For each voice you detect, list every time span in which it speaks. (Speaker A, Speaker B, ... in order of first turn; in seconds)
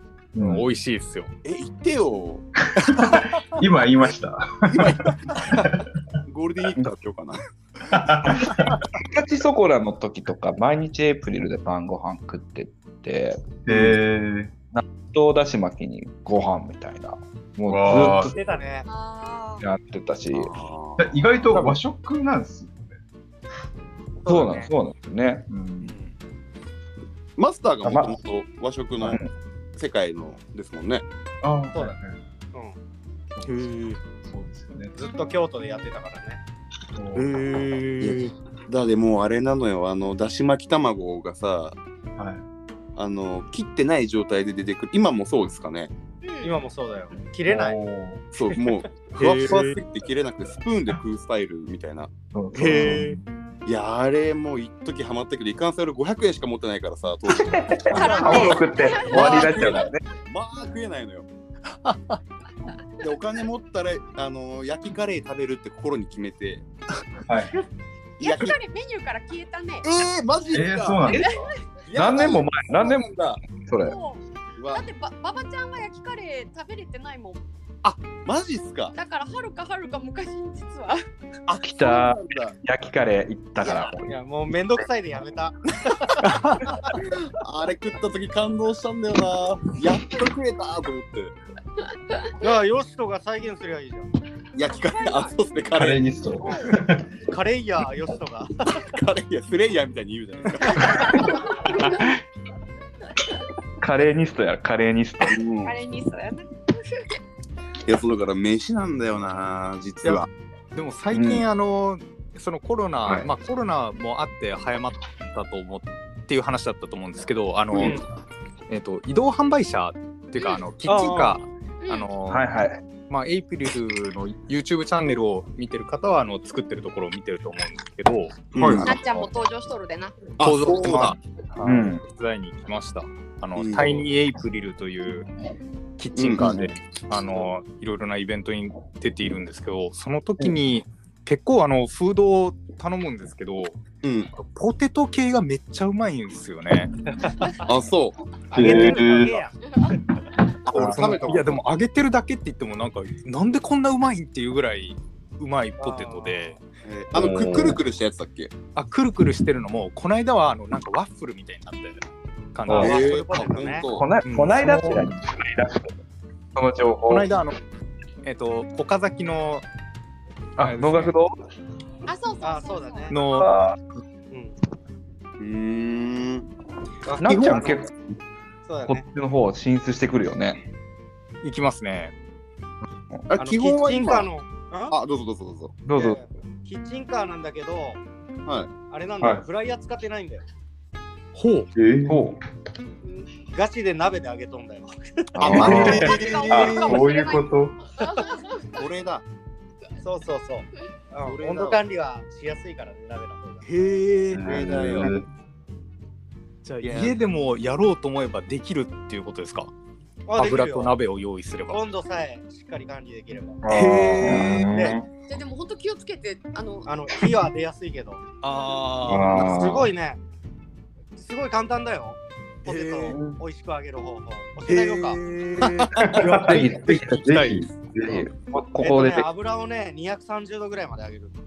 Speaker A: 0.3-0.7, 2.7-5.8, 7.9-8.8, 13.6-14.5, 17.6-18.4, 21.0-23.0, 25.5-25.9, 31.4-32.2, 33.4-33.7, 34.2-34.9, 36.9-37.3, 42.2-42.4, 47.5-48.2, 52.6-53.2, 67.3-67.6, 70.5-71.4, 95.8-97.0, 101.7-102.1, 128.6-128.8, 148.5-149.4, 157.2-157.7, 164.6-165.1, 189.2-189.4, 191.7-192.3, 195.5-197.8, 204.3-205.2, 213.6-215.1, 219.0-219.9
Speaker B: 0.4-1.3, 2.8-3.3, 25.8-26.1, 33.4-34.0, 37.1-38.3, 49.1-49.8, 52.5-53.2, 61.8-62.2, 86.3-86.6, 110.0-118.0, 118.7-122.5, 123.1-128.5, 130.4-135.3, 136.0-143.8, 144.3-146.9, 150.7-156.6, 158.7-162.0, 162.5-163.3, 164.2-165.0, 167.1-167.6, 168.2-169.7, 170.6-171.1, 173.1-173.5, 181.4-182.1, 191.3-191.7, 195.5-197.0, 203.6-205.1, 206.6-209.7, 210.3-211.8, 213.7-214.7, 218.4-219.7, 222.6-223.2, 224.6-226.7, 227.3-227.7
Speaker C: 1.4-2.5, 4.8-5.6, 6.2-7.4, 20.3-21.1, 27.4-29.2, 29.8-31.0, 38.0-41.8, 43.0-45.9, 48.3-52.1, 53.6-58.5, 59.0-61.3, 63.0-66.6, 68.2-68.6, 69.8-71.1, 71.8-73.4, 74.6-74.8, 77.8-79.0, 81.5-82.6, 86.9-91.3, 94.5-96.0, 98.8-101.3, 105.3-105.7, 107.8-110.3, 128.5-128.9, 130.4-131.2, 133.6-134.1, 136.2-137.5, 144.0-144.3, 147.6-148.2, 150.7-151.6, 156.8-158.5, 162.7-164.1, 175.4-176.5, 183.3-184.3, 184.9-185.8, 195.9-196.6, 198.7-199.2, 201.2-201.8, 204.4-205.1, 206.8-207.2
Speaker D: 9.0-13.9, 14.7-18.4, 19.6-20.5, 21.5-21.8, 24.2-25.5, 27.8-28.2, 29.0-29.3, 52.3-53.0, 57.3-60.0, 71.9-74.0, 81.6-84.2, 103.8-105.5, 111.1-111.4, 122.3-122.8, 128.8-129.2, 131.6-132.0, 136.3-136.7, 157.2-157.7, 163.9-165.9, 166.5-167.4, 170.6-171.4, 173.3-173.8, 177.2-178.0, 178.9-180.7, 185.8-186.2, 192.1-192.4, 195.4-196.2, 225.9-229.3
Speaker E: 18.2-18.9, 24.2-24.7, 34.9-36.4, 46.4-47.8, 57.9-58.6, 83.6-86.8, 92.4-94.1, 97.2-98.8, 117.8-118.0, 120.8-121.4, 148.5-149.6, 155.8-156.5, 162.7-163.9, 172.4-173.5, 174.3-174.5, 177.0-177.8, 178.6-179.0, 183.4-184.9, 185.9-188.0, 188.9-190.4, 193.4-196.2, 198.0-198.3, 200.0-203.6, 210.3-210.9, 211.7-213.6, 214.5-215.0, 216.9-218.2, 219.1-220.2, 221.1-225.2, 226.0-227.2, 228.8-231.3
Speaker F: 18.9-19.7, 46.2-46.6, 57.9-60.0, 68.2-69.9, 71.0-71.8, 73.8-77.4, 78.9-81.0, 94.9-95.4, 96.4-96.7, 100.8-102.1, 105.6-107.2, 120.4-120.6, 121.8-122.1, 128.8-130.4, 172.1-173.1, 196.0-198.8, 215.3-217.0